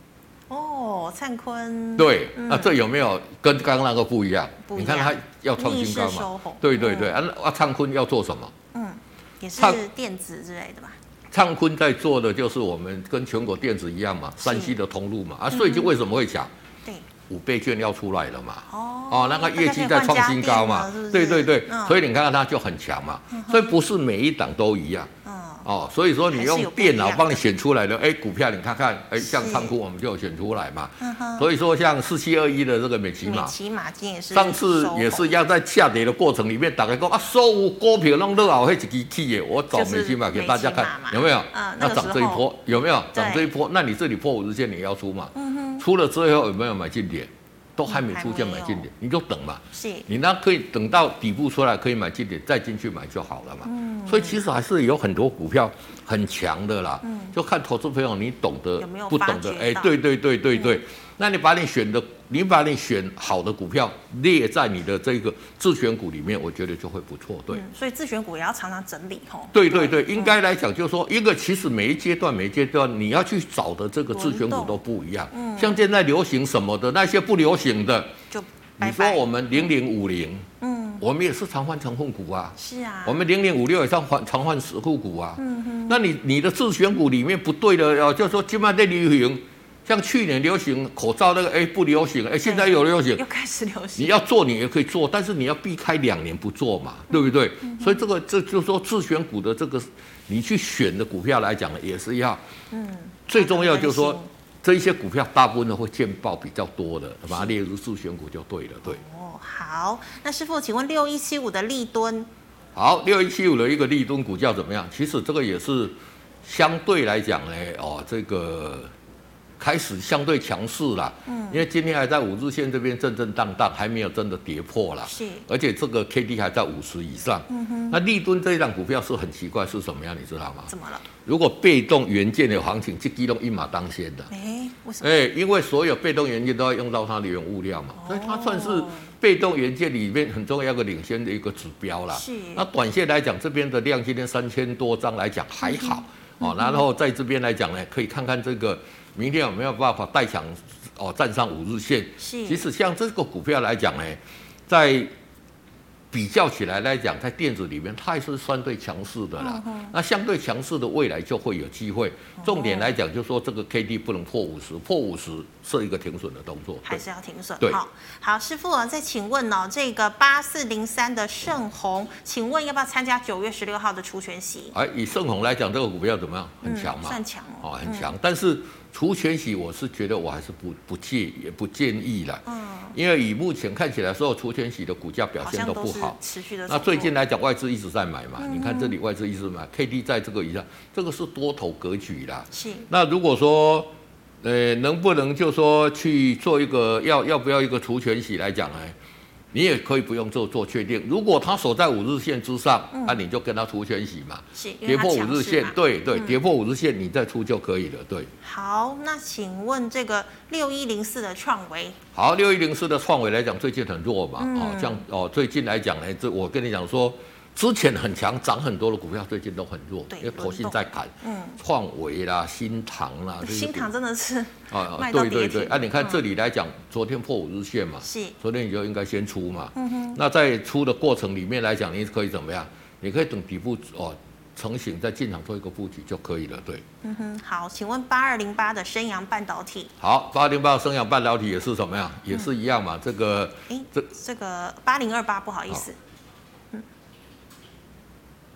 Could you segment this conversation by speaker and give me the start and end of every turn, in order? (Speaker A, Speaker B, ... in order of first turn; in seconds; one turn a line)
Speaker A: 0.5-2.8
Speaker B: 2.0-8.5
Speaker A: 4.7-7.2
Speaker A: 8.7-10.9
Speaker B: 9.6-9.8
Speaker B: 11.3-16.5
Speaker A: 14.4-14.8
Speaker A: 15.5-15.9
Speaker B: 17.3-25.1
Speaker A: 18.7-22.0
Speaker A: 23.3-23.7
Speaker A: 25.2-25.7
Speaker B: 25.6-33.5
Speaker A: 26.3-27.4
Speaker A: 29.2-29.7
Speaker A: 31.0-31.5
Speaker A: 33.2-35.3
Speaker B: 34.3-67.6
Speaker A: 39.7-42.5
Speaker A: 43.1-43.5
Speaker A: 45.3-45.8
Speaker A: 47.9-48.9
Speaker A: 49.7-50.1
Speaker A: 53.6-54.4
Speaker A: 57.0-57.3
Speaker A: 58.8-59.9
Speaker A: 60.5-60.8
Speaker A: 67.5-70.4
Speaker B: 69.5-78.1
Speaker A: 74.1-74.8
Speaker A: 75.3-75.8
Speaker A: 78.3-79.7
Speaker B: 78.8-80.5
Speaker A: 80.6-81.0
Speaker B: 81.0-93.2
Speaker A: 82.6-83.2
Speaker A: 85.4-86.0
Speaker A: 92.4-94.1
Speaker B: 94.0-102.4
Speaker A: 97.1-98.0
Speaker A: 102.7-104.3
Speaker B: 103.3-109.0
Speaker A: 107.3-107.5
Speaker A: 108.8-112.3
Speaker B: 112.7-118.9
Speaker B: 119.6-130.7
Speaker A: 121.2-121.6
Speaker A: 125.1-125.5
Speaker A: 127.5-128.0
Speaker A: 130.7-131.1
Speaker B: 131.2-134.3
Speaker A: 134.3-135.2
Speaker B: 135.0-155.1
Speaker A: 137.9-139.1
Speaker A: 142.1-142.7
Speaker A: 145.6-146.8
Speaker A: 152.2-152.6
Speaker B: 156.1-167.0
Speaker A: 159.4-159.9
Speaker A: 162.4-162.9
Speaker A: 166.8-174.7
Speaker B: 174.7-193.9
Speaker A: 176.6-178.1
Speaker A: 182.4-182.9
Speaker A: 185.4-187.1
Speaker A: 188.4-188.9
Speaker A: 192.5-192.9
Speaker B: 194.4-198.9
Speaker B: 199.5-208.3
Speaker A: 202.9-203.2
Speaker A: 204.5-206.4
Speaker A: 208.4-212.0
Speaker B: 212.1-223.9
Speaker A: 214.4-215.0
Speaker A: 220.1-221.6
Speaker A: 223.4-226.2
Speaker B: 224.7-236.8
Speaker A: 228.0-228.3
Speaker A: 229.7-230.2
Speaker A: 237.0-239.9
Speaker B: 240.0-244.1
Speaker A: 243.7-246.0